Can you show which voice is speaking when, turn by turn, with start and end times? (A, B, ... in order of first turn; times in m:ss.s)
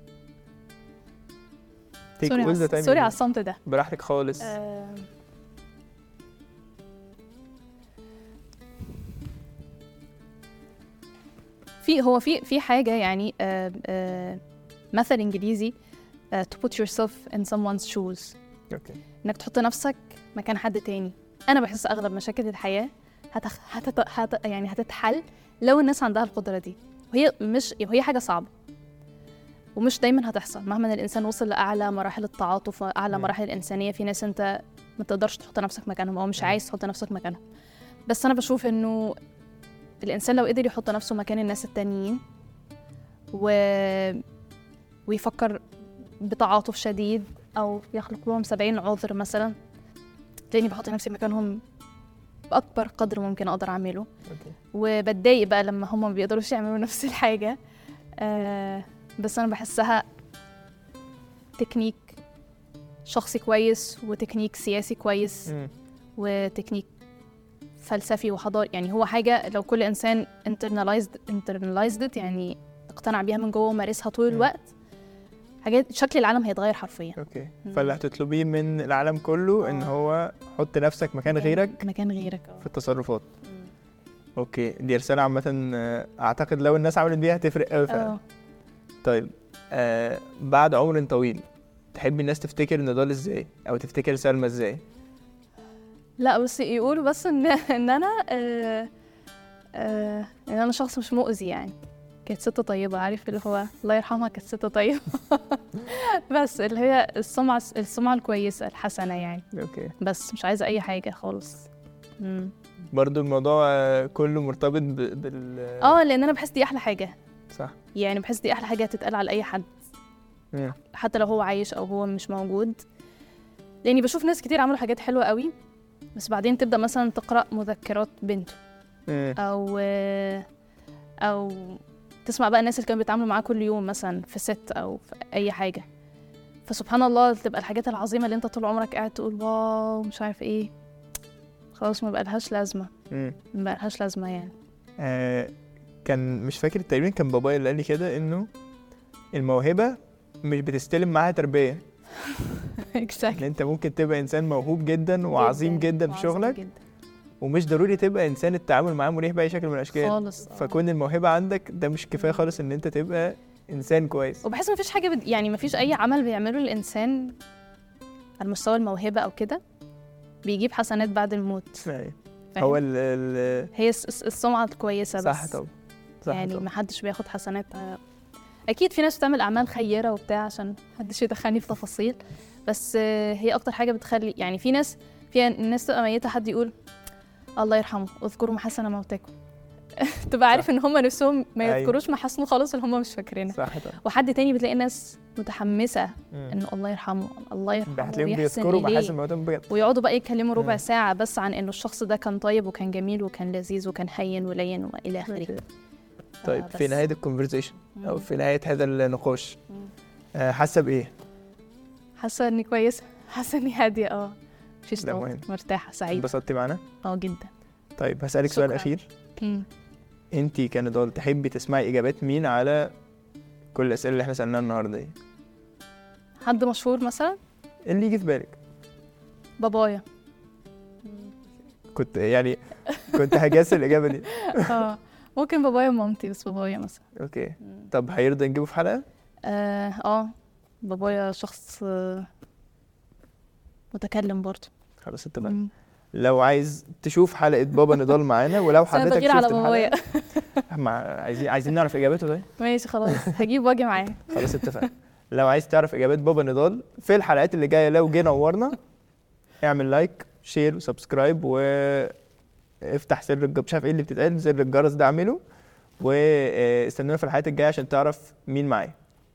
0:02.2-0:04.6 A
0:02.2-0:03.6 B
0:04.4-0:05.1 B
0:11.8-0:14.4 B
0:14.9-0:15.7 B
0:16.3-0:18.4 B
0:18.7-0:19.0 A
0:19.2-0:28.5 B
0:29.8-0:37.4 B
0:38.1-0:39.2 B
0:40.0-0:42.2 B
0:43.3-0:44.2 B
0:45.1-0:45.6 B
0:46.2-0:49.6 B
0:50.5-0:51.6 B
0:52.5-0:54.1 B
0:54.3-0:54.5 A
0:54.7-0:57.6 B
0:58.2-1:00.1 B
1:01.6-1:02.2 B
1:03.1-1:05.5 B
1:06.2-1:06.9 B
1:07.8-1:14.7 B
1:15.6-1:18.0 B
1:17.2-1:21.8 A
1:19.6-1:19.9 B
1:21.3-1:22.6 B
1:22.6-1:23.3 A
1:24.4-1:28.1 A
1:27.9-1:28.2 B
1:29.0-1:34.8 A
1:36.2-1:38.9 B
1:39.7-1:41.8 B
1:42.3-1:49.5 B
1:49.5-1:49.9 A
1:50.0-1:51.7 B
1:52.2-1:52.5 B
1:52.9-1:56.0 A
1:55.8-1:57.2 B
1:57.9-1:59.7 B
2:00.8-2:02.8 B
2:03.8-2:05.5 B
2:06.2-2:08.6 B
2:09.1-2:09.4 A
2:09.4-2:10.4 B
2:11.2-2:15.8 B
2:16.7-2:20.7 B
2:21.8-2:22.9 B
2:23.1-2:23.4 A
2:23.5-2:24.5 B
2:25.0-2:25.5 A
2:26.0-2:28.5 A
2:29.3-2:31.8 A
2:32.2-2:33.5 B
2:33.3-2:36.6 A
2:35.4-2:36.8 B
2:37.4-2:44.4 A
2:39.9-2:40.8 B
2:44.4-2:47.4 B
2:48.4-2:49.6 B
2:50.4-2:51.9 B
2:51.9-2:53.7 A
2:53.7-2:55.6 B
2:55.2-2:56.6 A
2:56.3-2:58.0 B
2:58.7-3:06.7 B
3:07.6-3:09.3 B
3:10.0-3:19.2 B
3:11.6-3:12.0 A
3:13.5-3:14.0 A
3:17.9-3:19.7 A
3:19.7-3:25.6 B
3:20.6-3:20.8 A
3:26.4-3:27.0 B
3:26.4-3:29.6 A
3:28.0-3:28.3 B
3:30.3-3:31.1 A
3:32.2-3:36.3 B
3:35.0-3:35.4 A
3:36.1-3:36.8 A
3:37.0-3:37.5 B
3:38.0-3:39.1 A
3:38.5-3:39.7 B
3:40.3-3:42.9 A
3:43.7-3:45.2 A
3:46.4-3:47.4 B
3:47.9-3:48.6 A
3:49.6-3:50.0 B
3:51.9-3:54.8 A
3:52.9-3:53.6 B
3:54.2-3:57.0 B
3:57.2-3:59.0 A
3:59.4-4:02.3 B
4:03.9-4:04.7 B
4:05.0-4:05.6 A
4:05.4-4:05.7 B
4:06.1-4:10.0 A
4:08.8-4:10.6 B
4:10.7-4:12.5 A
4:12.6-4:14.9 B
4:13.1-4:13.3 A
4:14.3-4:18.8 A
4:19.6-4:22.2 A
4:22.8-4:25.4 A
4:26.0-4:29.0 A